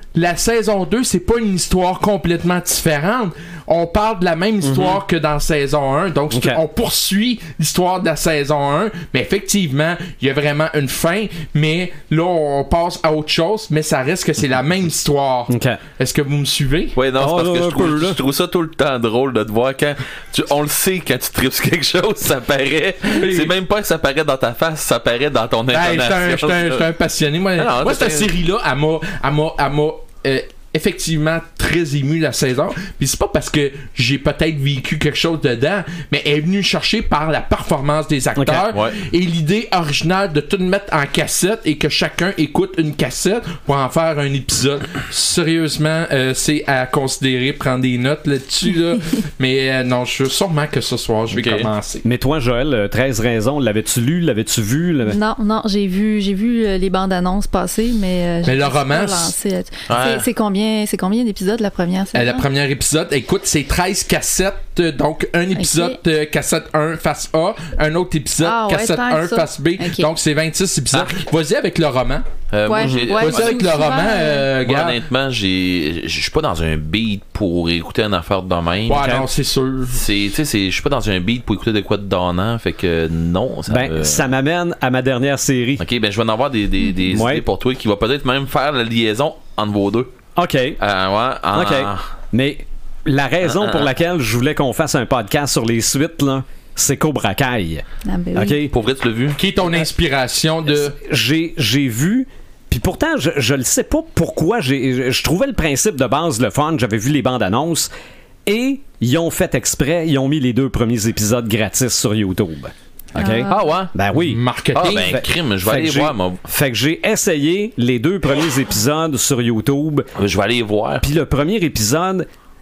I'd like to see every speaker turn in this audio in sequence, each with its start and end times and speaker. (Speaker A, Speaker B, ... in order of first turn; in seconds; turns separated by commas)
Speaker A: 0.1-16.9, Speaker B: 4.6-5.0, Speaker B: 6.3-6.6, Speaker B: 15.5-15.8, Speaker C: 16.9-26.9, Speaker B: 17.2-18.2, Speaker A: 23.1-23.5, Speaker A: 25.7-52.0, Speaker C: 27.6-28.3, Speaker B: 38.4-38.7, Speaker C: 38.7-39.0, Speaker C: 51.3-51.7, Speaker B: 52.0-55.2, Speaker D: 55.1-62.4, Speaker A: 58.4-59.3, Speaker C: 59.9-60.3, Speaker A: 62.1-72.2, Speaker D: 65.5-66.0, Speaker D: 68.4-70.1, Speaker C: 72.5-74.0, Speaker D: 72.7-74.5, Speaker B: 72.8-73.1, Speaker A: 73.1-75.0, Speaker C: 74.6-79.2, Speaker A: 78.8-80.0, Speaker C: 79.9-84.3, Speaker B: 83.7-85.8, Speaker C: 85.8-90.1, Speaker B: 87.1-87.4, Speaker B: 90.4-90.8, Speaker C: 90.8-92.0, Speaker B: 91.5-98.7, Speaker C: 93.5-93.9, Speaker D: 98.0-98.6, Speaker C: 98.7-99.4, Speaker A: 99.3-101.0, Speaker B: 100.8-107.9, Speaker B: 108.5-120.1, Speaker D: 113.2-113.6, Speaker C: 113.5-113.9, Speaker A: 114.1-115.2, Speaker C: 114.7-116.4, Speaker C: 120.2-121.0, Speaker B: 121.0-122.3